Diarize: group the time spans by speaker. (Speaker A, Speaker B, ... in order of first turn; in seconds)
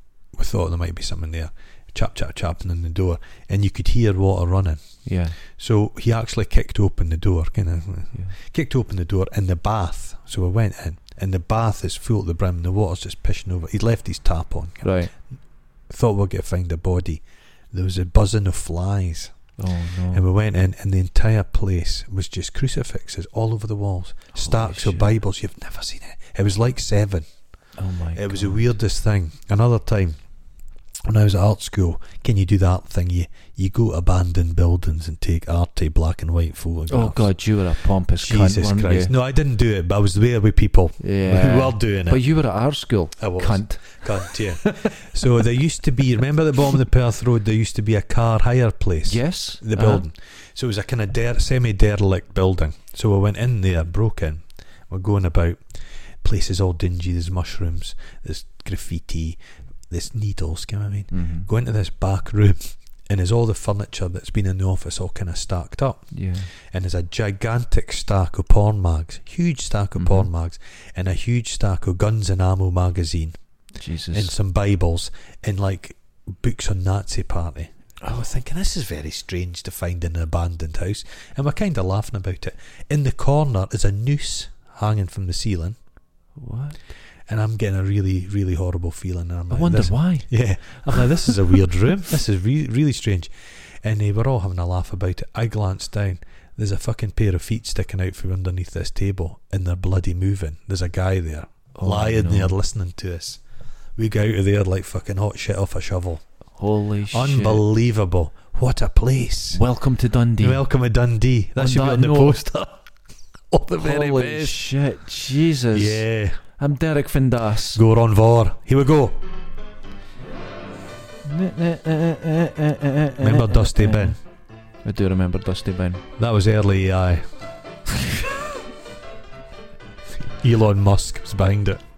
Speaker A: 0.3-4.8, 5.5-14.9, 15.9-17.2, 17.7-19.3, 20.1-27.3, 28.1-30.2, 31.1-37.3, 38.2-42.2, 43.2-55.6, 56.2-59.4, 59.9-73.4, 74.1-85.8, 87.3-93.3, 93.8-103.4, 104.0-106.2, 107.1-109.6, 110.4-112.8, 113.5-114.7, 115.7-116.4, 117.7-119.2, 123.2-124.2, 126.2-127.2, 130.4-131.8
Speaker B: 5.0-5.4, 14.8-15.1, 19.6-20.2, 24.3-25.1, 27.8-28.6, 36.9-39.1, 41.0-45.0, 49.1-50.0, 61.1-61.5, 66.1-66.5, 70.0-70.3, 73.8-74.3, 78.0-78.3, 86.4-86.8, 89.5-90.3, 90.9-91.4, 101.7-102.5, 106.6-107.6, 109.5-110.6, 111.6-112.4, 113.8-116.0, 116.5-117.8, 121.2-124.2, 124.8-126.0